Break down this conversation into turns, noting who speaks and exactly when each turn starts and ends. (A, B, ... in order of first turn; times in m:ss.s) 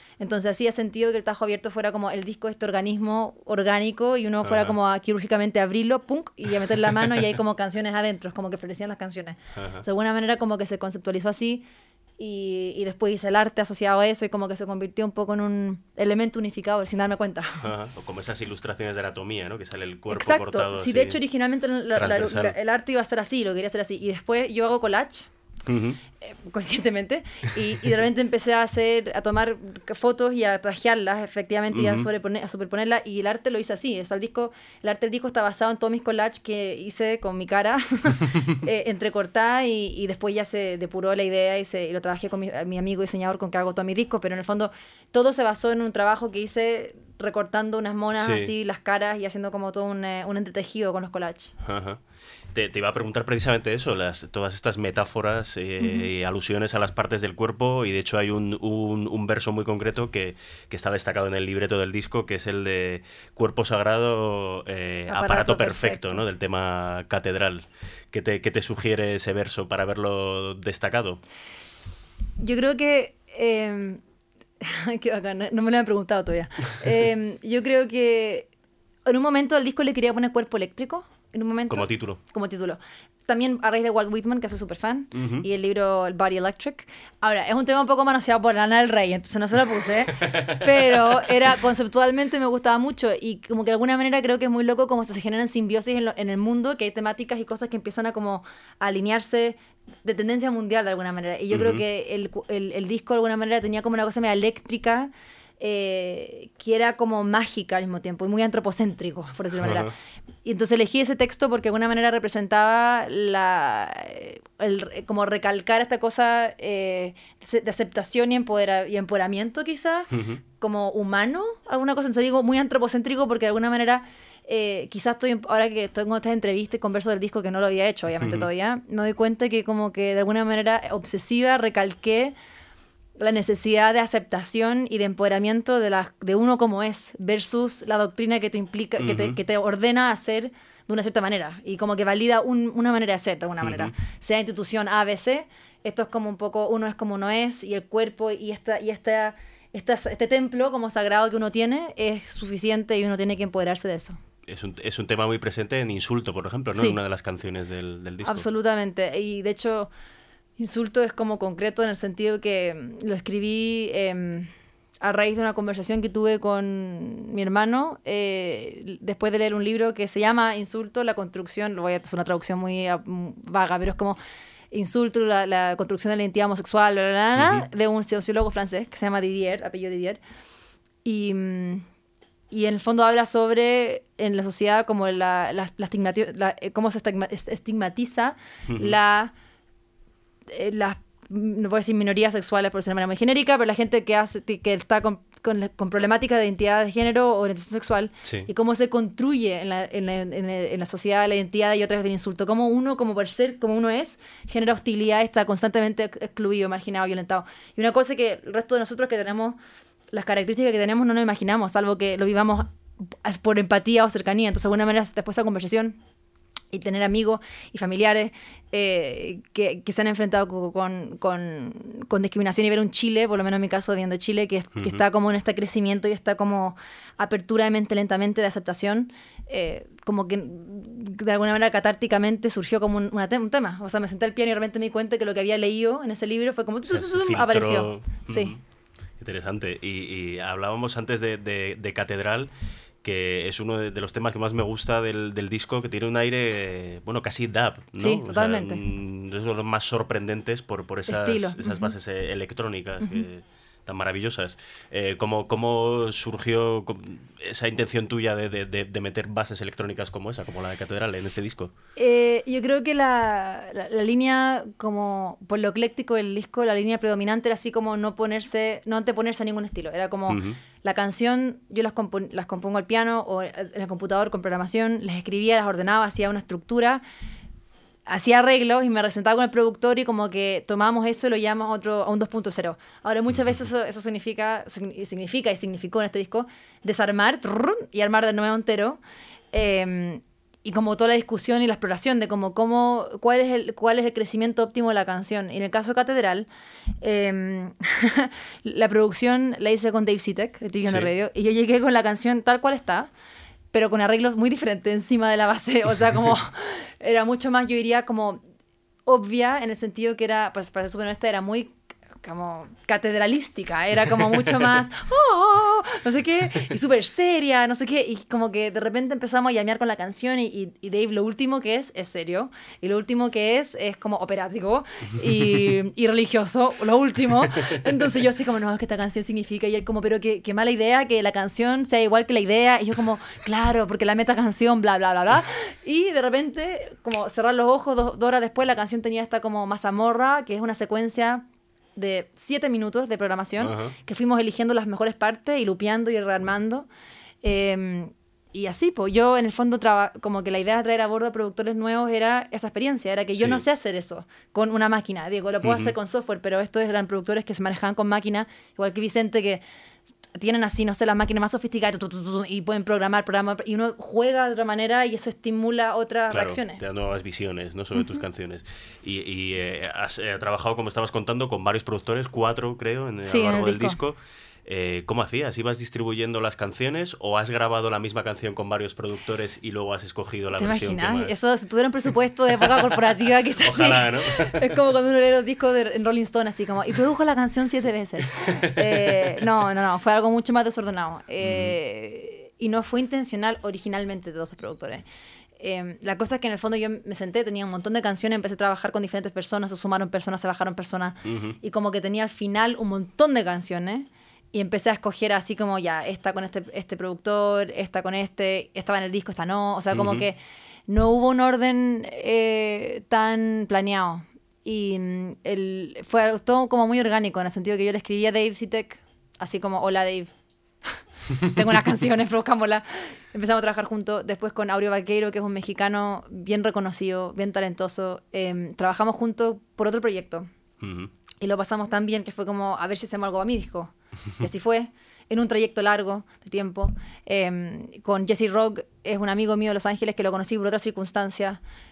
0:00.2-0:11.6 A
0:04.4-0:04.7 B
0:09.6-0:09.8 B
0:12.2-0:17.6 A
0:17.6-0:21.2 B
0:20.1-0:25.3 A
0:22.0-0:22.6 B
0:25.7-0:26.0 B
0:26.2-0:51.5 A
0:31.7-0:32.1 B
0:48.2-0:48.5 B
0:51.6-0:52.0 B
0:52.5-1:11.2 B
0:55.8-0:56.1 A
1:05.1-1:06.2 A
1:12.4-1:14.0 A
1:14.6-1:18.5 A
1:19.1-1:49.9 A
1:21.7-1:22.2 B
1:25.1-1:25.5 B
1:30.3-1:31.0 B
1:41.5-1:41.8 B
1:49.6-1:49.9 B
1:50.4-2:12.4 A
2:00.1-2:00.4 B
2:08.2-2:08.5 B
2:13.2-2:34.2 A
2:19.0-2:19.4 B
2:23.6-2:23.9 B
2:34.5-2:38.5 B
2:38.2-2:39.9 A
2:40.6-2:44.5 A
2:45.0-2:54.2 A
2:54.7-3:00.2 A
2:57.4-2:57.7 B
3:01.0-3:01.9 A
3:02.5-3:09.3 A
3:08.7-3:09.0 B
3:10.5-3:29.6 A
3:30.1-3:36.0 A
3:36.7-3:58.6 A
3:44.8-3:45.0 B
3:56.9-3:58.6 B
3:59.2-4:02.5 B
4:03.0-4:21.7 B
4:08.0-4:08.8 A
4:11.1-4:11.9 A
4:22.0-4:37.0 A
4:30.3-4:30.6 B
4:38.1-4:49.0 A
4:49.5-4:56.5 A
4:57.0-5:03.1 A
5:00.9-5:01.1 B
5:03.7-5:08.4 A
5:09.1-5:41.4 A
5:42.0-5:46.9 A
5:43.6-5:44.0 B
5:47.4-5:59.6 A
5:53.4-5:53.6 B
5:55.6-5:56.0 B
6:00.4-6:06.8 A
6:06.3-6:21.4 B
6:08.0-6:08.2 A
6:13.3-6:14.0 A
6:20.6-6:35.0 A
6:23.6-6:24.6 B
6:28.9-6:29.3 B
6:31.4-6:31.8 B
6:35.6-7:00.3 A
6:41.2-6:41.6 B
6:49.9-6:50.3 B
7:00.9-7:10.5 A
7:10.8-7:11.1 B
7:11.4-7:21.6 A